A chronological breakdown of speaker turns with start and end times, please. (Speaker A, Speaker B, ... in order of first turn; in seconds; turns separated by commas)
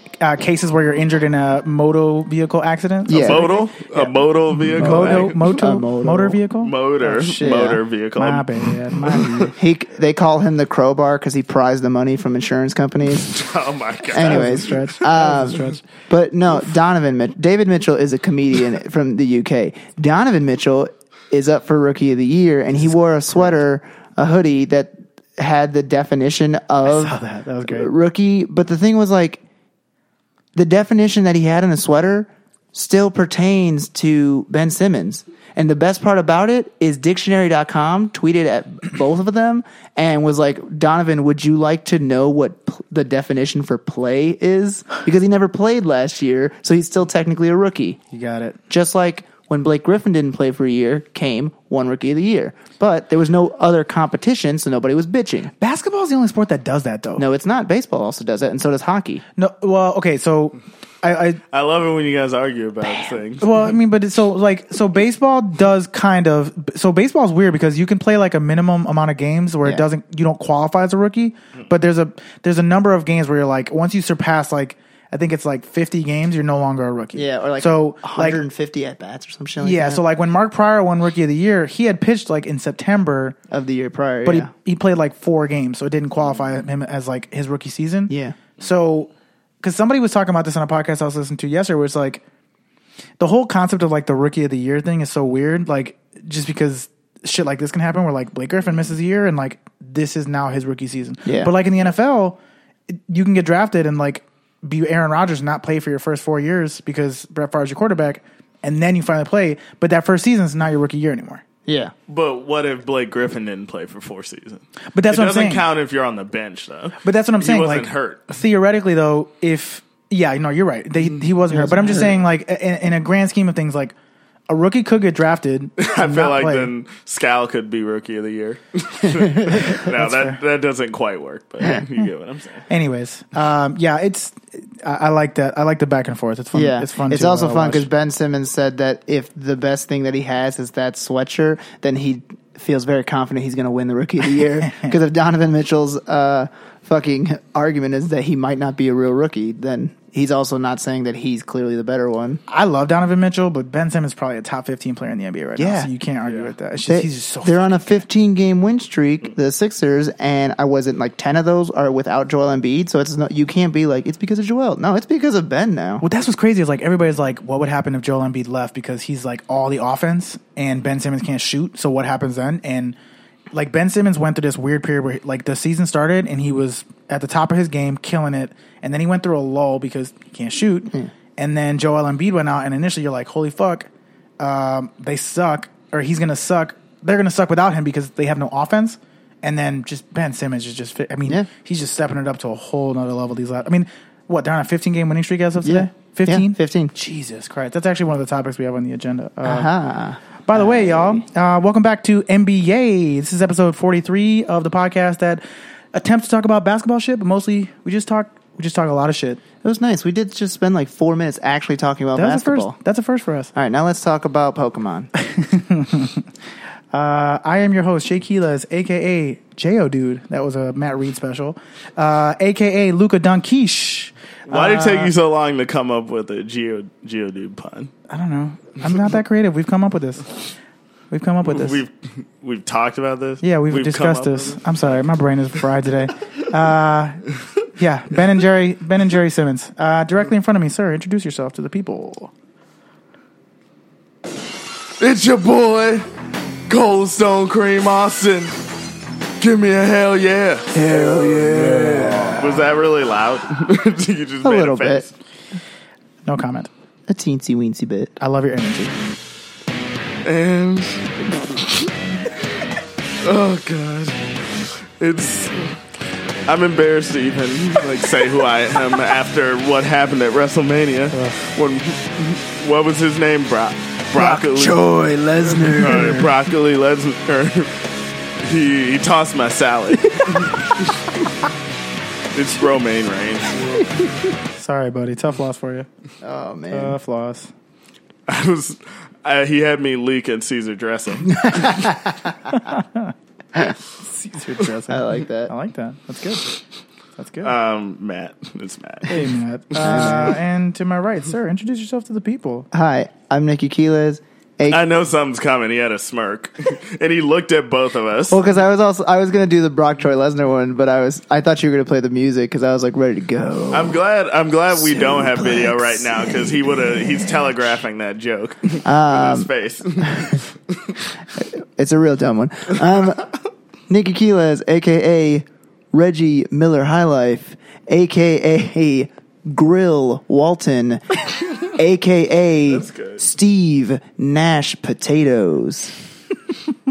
Speaker A: 0.2-4.2, Speaker B: 3.1-3.5, Speaker C: 3.1-5.5, Speaker A: 4.7-7.6, Speaker B: 4.7-6.4, Speaker C: 6.6-9.5, Speaker B: 7.2-7.8, Speaker A: 8.2-9.5, Speaker B: 9.5-13.4, Speaker C: 13.1-15.4, Speaker B: 14.1-29.4, Speaker A: 14.1-15.8, Speaker A: 26.8-27.9, Speaker B: 30.6-48.0, Speaker A: 48.1-48.6, Speaker B: 48.7-55.5, Speaker A: 55.6-57.2, Speaker B: 57.2-59.2, Speaker A: 59.4-61.4, Speaker C: 61.5-63.5, Speaker A: 63.4-78.4, Speaker B: 77.2-80.0, Speaker A: 79.6-83.4, Speaker B: 83.5-84.5, Speaker A: 84.2-89.1, Speaker B: 88.1-88.4, Speaker A: 89.6-92.2, Speaker A: 93.2-102.4, Speaker B: 101.2-101.5, Speaker A: 103.1-111.4, Speaker B: 111.7-111.9, Speaker C: 112.1-118.3, Speaker A: 114.9-115.7, Speaker A: 117.0-124.0, Speaker B: 121.5-122.1, Speaker A: 124.5-126.7, Speaker C: 125.8-132.7, Speaker B: 129.4-129.7, Speaker A: 129.5-130.4, Speaker A: 132.7-137.9, Speaker B: 136.5-152.4, Speaker A: 144.6-144.9, Speaker A: 152.5-158.0, Speaker B: 155.6-155.9, Speaker B: 156.9-166.1, Speaker A: 166.0-173.0, Speaker A: 173.5-199.7, Speaker B: 195.6-196.9, Speaker B: 199.4-201.2, Speaker A: 200.5-205.4, Speaker A: 205.9-209.4, Speaker B: 209.6-212.8, Speaker A: 212.2-213.5, Speaker B: 213.6-215.1, Speaker A: 215.2-216.3, Speaker A: 216.9-225.1, Speaker C: 224.5-227.9, Speaker A: 228.1-230.3, Speaker A: 231.1-231.8, Speaker C: 231.5-234.8, Speaker A: 233.4-237.2, Speaker A: 237.8-242.3, Speaker C: 245.0-246.1, Speaker C: 246.7-248.6, Speaker C: 249.4-255.1, Speaker B: 250.7-252.6, Speaker B: 254.4-255.1, Speaker A: 256.2-256.7, Speaker B: 257.1-258.1, Speaker A: 258.2-259.0, Speaker C: 260.2-261.9, Speaker C: 263.2-265.8, Speaker C: 266.5-274.8, Speaker B: 274.1-276.3, Speaker C: 275.6-281.0, Speaker A: 275.9-276.3, Speaker C: 282.3-283.8, Speaker A: 284.6-285.9, Speaker B: 286.2-287.0, Speaker A: 286.7-287.5, Speaker C: 288.3-291.9, Speaker B: 291.5-292.3, Speaker A: 292.5-293.1, Speaker A: 294.0-296.6, Speaker B: 294.9-295.5, Speaker A: 297.2-297.5, Speaker C: 297.4-300.2, Speaker A: 299.1-302.7, Speaker B: 299.8-300.4, Speaker B: 302.7-304.8, Speaker C: 304.7-308.4, Speaker B: 308.3-314.0, Speaker C: 313.7-321.0, Speaker B: 314.8-316.2, Speaker B: 318.9-319.5, Speaker B: 320.0-320.4, Speaker B: 321.4-323.3, Speaker B: 323.9-335.9, Speaker C: 332.7-333.2